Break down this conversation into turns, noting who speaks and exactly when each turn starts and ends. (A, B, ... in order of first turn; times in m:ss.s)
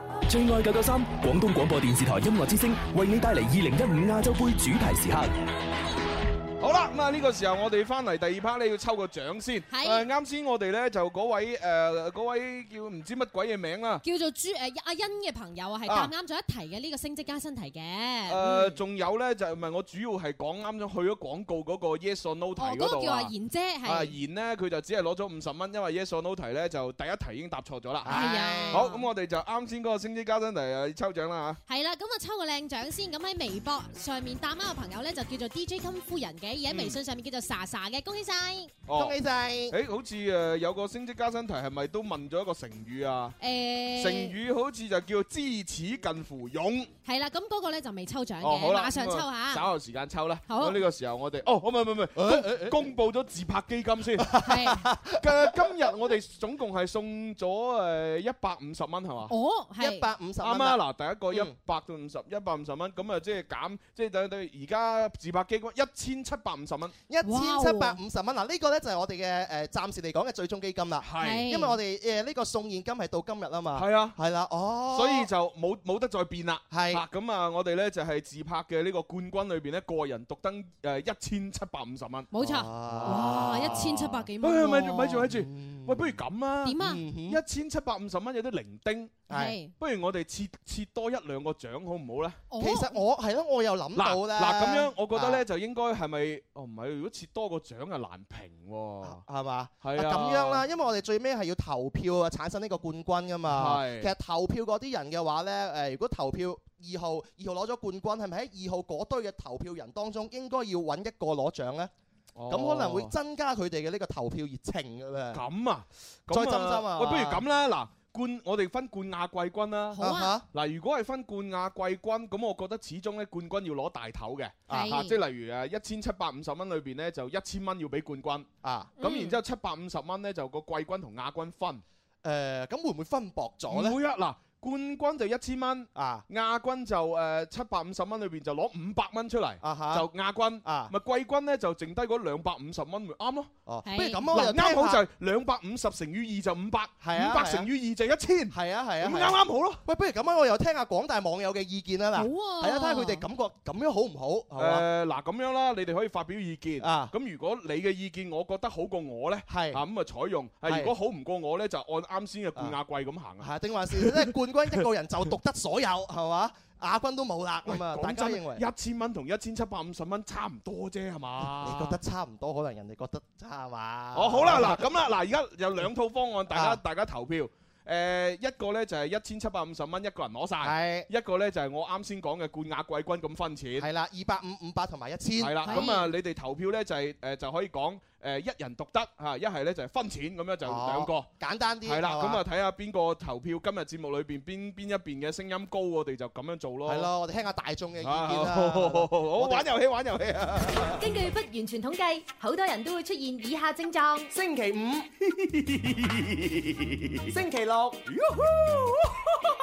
0:00.3-0:05.3 A
0:06.6-0:14.0 B
0:09.7-0:10.0 C
0:14.0-0:18.8 C
0:15.9-0:16.1 B
0:18.3-0:23.3 B
0:22.6-0:24.1 C
0:23.8-0:31.6 B
0:28.0-0:28.9 D
0:28.1-0:29.1 C
0:31.7-0:38.7 C
0:36.7-0:37.0 B
0:38.9-0:39.2 B
0:38.9-0:39.8 D
0:39.7-0:43.4 B
0:43.4-0:44.4 C
0:44.0-0:46.9 B
0:47.0-0:49.6 C
0:48.4-0:54.3 B
0:50.5-0:50.8 C
0:52.2-0:52.8 D
0:54.2-0:55.5 D
0:54.4-0:54.9 C
0:55.2-0:59.3 B
0:59.3-1:00.1 C
0:59.8-1:00.8 D
1:00.4-1:07.0 B
1:07.1-1:15.3 D
1:07.2-1:08.0 C
1:11.0-1:11.5 B
1:11.2-1:11.8 C
1:13.8-1:14.2 B
1:14.9-1:22.3 B
1:16.7-1:17.0 D
1:22.3-1:25.2 C
1:22.4-1:24.0 D
1:22.9-1:29.2 B
1:25.2-1:26.2 D
1:26.6-1:27.0 C
1:26.8-1:27.4 D
1:29.3-1:29.6 D
1:29.3-1:29.7 C
1:29.8-1:32.4 B
1:32.5-1:33.0 C
1:32.6-1:35.4 D
1:34.0-1:39.2 B
1:39.0-1:51.9 D
1:39.8-1:40.6 B
1:43.5-1:44.1 B
1:52.4-1:53.1 B
1:52.5-1:55.4 D
1:55.3-2:00.0 B
1:56.3-1:57.4 D
1:59.9-2:00.3 C
2:00.0-2:00.4 D
2:00.5-2:08.5 B
2:04.7-2:05.2 C
2:08.6-2:09.0 D
2:09.0-2:09.4 C
2:09.0-2:11.8 B
2:12.2-2:14.0 D
2:13.7-2:23.5 B
2:16.0-2:16.2 D
2:19.6-2:20.1 D
2:20.6-2:20.9 D
2:23.7-2:25.0 D
2:23.9-2:24.2 C
2:24.3-2:29.8 B
2:27.0-2:27.7 D
2:28.5-2:34.9 D
2:32.2-2:33.2 C
2:34.6-2:44.3 B
2:36.8-2:37.1 D
2:39.5-2:39.8 D
2:40.6-2:40.9 D
2:43.4-2:48.6 D
2:47.7-2:52.0 B
2:51.6-2:54.9 D
2:54.2-3:03.9 B
2:56.5-2:56.8 D
3:00.6-3:01.1 D
3:03.8-3:05.9 D
3:05.4-3:11.3 B
3:05.6-3:06.1 C
3:10.6-3:12.4 D
3:11.8-3:17.1 B
3:16.9-3:19.7 D
3:18.0-3:21.0 B
3:21.0-3:24.3 E
3:24.3-3:25.1 D
3:27.3-3:28.0 D